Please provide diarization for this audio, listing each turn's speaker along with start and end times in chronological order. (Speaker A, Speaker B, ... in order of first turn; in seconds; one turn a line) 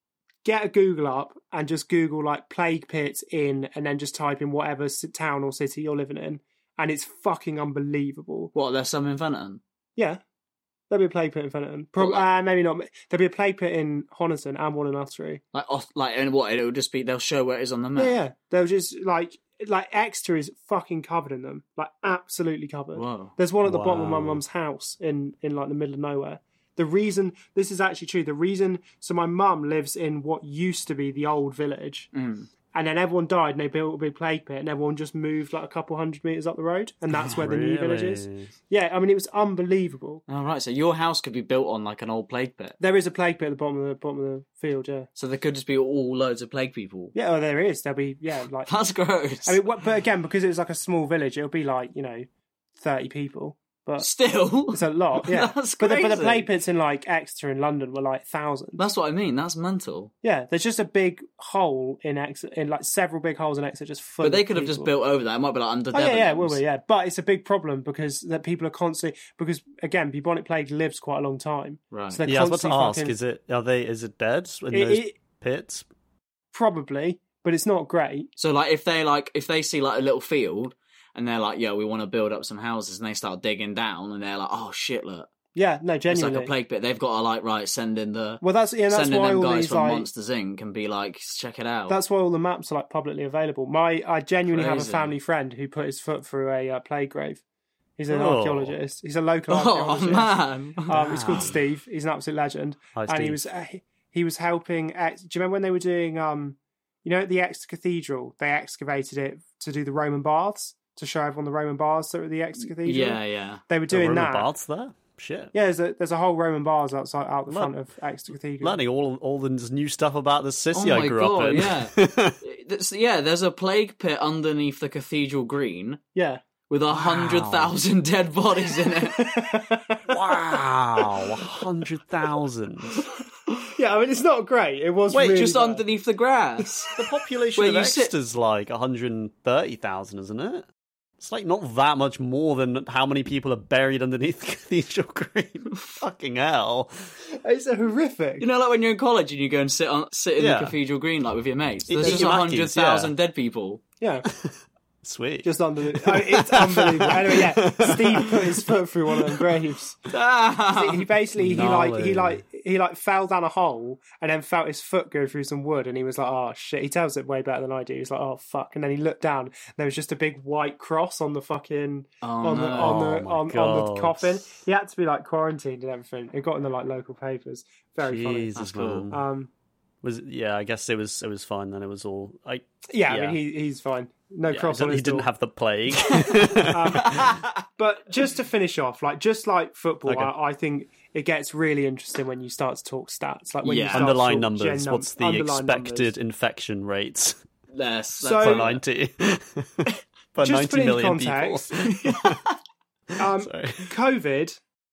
Speaker A: 0.4-8.5
Speaker B: 8.5-9.6
Speaker A: 9.9-10.2
Speaker A: 10.9-15.4
Speaker B: 12.0-12.2
Speaker B: 15.5-18.1
Speaker A: 17.9-32.1
Speaker B: 22.9-23.3
Speaker C: 23.6-24.4
Speaker B: 32.1-32.5
Speaker A: 32.7-40.2
Speaker C: 37.3-38.5
Speaker B: 40.3-42.8
Speaker A: 42.8-45.1
Speaker B: 45.2-47.1
Speaker A: 47.1-48.7
Speaker B: 48.6-49.6
Speaker A: 49.4-52.3
Speaker A: 52.8-54.1
Speaker B: 54.0-56.5
Speaker A: 54.7-58.8
Speaker B: 58.8-60.1
Speaker A: 60.2-64.9
Speaker B: 64.2-66.6
Speaker A: 65.9-73.1
Speaker B: 71.9-72.2
Speaker C: 72.2-75.8
Speaker A: 74.7-75.2
Speaker A: 76.5-78.3
Speaker B: 78.4-85.3
Speaker A: 85.5-86.5
Speaker B: 86.1-92.0
Speaker A: 88.4-90.1
Speaker A: 91.9-97.4
Speaker B: 94.5-95.2
Speaker A: 98.0-114.5
Speaker C: 98.1-98.7
Speaker B: 99.5-101.6
Speaker C: 102.9-103.4
Speaker B: 112.6-113.6
Speaker C: 113.9-115.5
Speaker A: 115.5-118.8
Speaker C: 117.5-117.8
Speaker C: 118.6-122.4
Speaker B: 120.7-126.0
Speaker A: 126.1-126.4
Speaker B: 126.7-129.3
Speaker C: 126.9-127.7
Speaker A: 129.0-130.2
Speaker C: 130.1-133.0
Speaker A: 133.7-135.8
Speaker C: 135.1-135.4
Speaker B: 135.2-136.9
Speaker C: 137.0-140.7
Speaker B: 137.6-138.1
Speaker C: 141.2-147.1
Speaker A: 147.4-148.4
Speaker B: 148.4-153.8
Speaker C: 150.4-150.7
Speaker C: 151.9-153.1
Speaker A: 152.0-152.3
Speaker A: 154.0-154.3
Speaker C: 154.3-158.4
Speaker A: 155.4-160.0
Speaker B: 160.1-161.1
Speaker A: 160.7-178.5
Speaker C: 161.4-162.4
Speaker B: 172.2-173.0
Speaker C: 172.8-174.4
Speaker C: 178.1-179.2
Speaker B: 178.6-179.1
Speaker A: 179.1-179.5
Speaker C: 180.0-183.4
Speaker A: 182.9-185.3
Speaker C: 184.5-187.3
Speaker A: 186.7-187.2
Speaker B: 187.0-187.6
Speaker A: 187.8-196.1
Speaker C: 190.1-190.3
Speaker B: 193.6-194.1
Speaker C: 193.9-197.4
Speaker B: 197.7-198.8
Speaker A: 198.2-198.7
Speaker C: 198.4-202.4
Speaker A: 200.4-201.7
Speaker B: 201.9-202.5
Speaker A: 203.2-204.6
Speaker C: 203.2-203.8